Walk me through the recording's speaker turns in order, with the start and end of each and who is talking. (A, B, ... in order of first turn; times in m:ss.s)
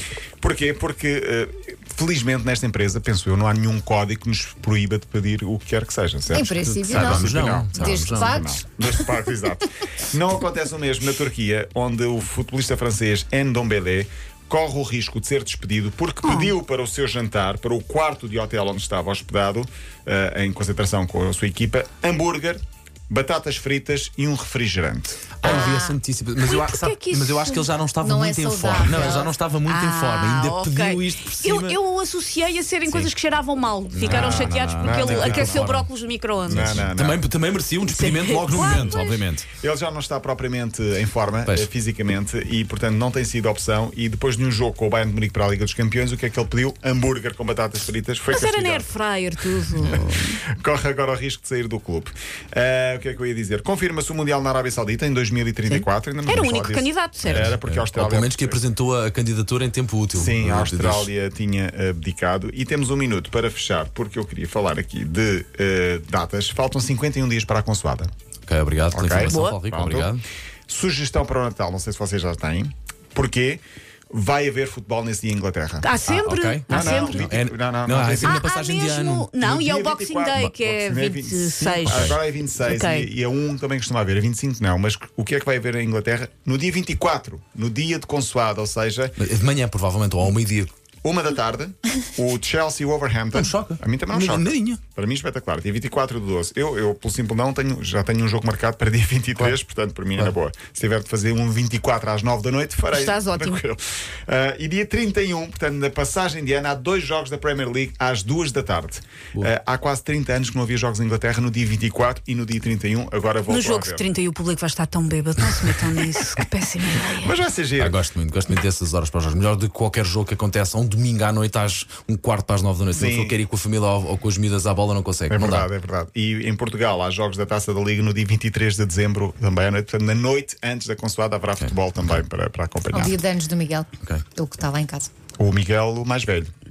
0:00.4-0:25.4 A
0:06.3-0:08.9 B
0:06.6-0:08.4 C
0:25.4-0:31.8 C
0:25.4-0:25.8 D
0:25.4-0:26.0 B
0:26.4-0:27.7 D
0:28.0-0:29.3 B
0:28.9-0:29.2 A
0:29.6-0:36.9 D
0:33.9-0:35.9 C
0:34.0-0:35.7 A
0:36.4-0:37.3 A
0:36.5-0:39.5 C
0:37.8-0:39.2 D
0:38.7-0:39.0 A
0:39.5-0:48.9 A
0:48.3-0:50.4 D
0:49.8-0:58.6 A
0:55.7-0:57.6 D
0:57.2-1:01.1 C
1:00.2-1:08.1 A
1:08.5-1:10.2 C
1:08.9-1:10.1 A
1:09.3-1:09.6 D
1:10.7-1:15.9 A
1:15.8-1:17.3 D
1:16.0-1:19.3 C
1:16.7-1:18.4 A
1:18.2-1:23.1 D
1:19.4-1:29.2 A
1:21.6-1:22.2 C
1:29.2-1:30.7 C
1:31.0-1:54.1 A
1:33.3-1:34.8 C
1:42.9-1:43.6 D
1:53.5-1:57.3 D
1:57.2-1:58.0 A
1:57.8-2:05.7 C
2:02.9-2:03.4 A
2:05.3-2:13.2 A
2:12.9-2:15.1 B
2:15.4-2:16.5 A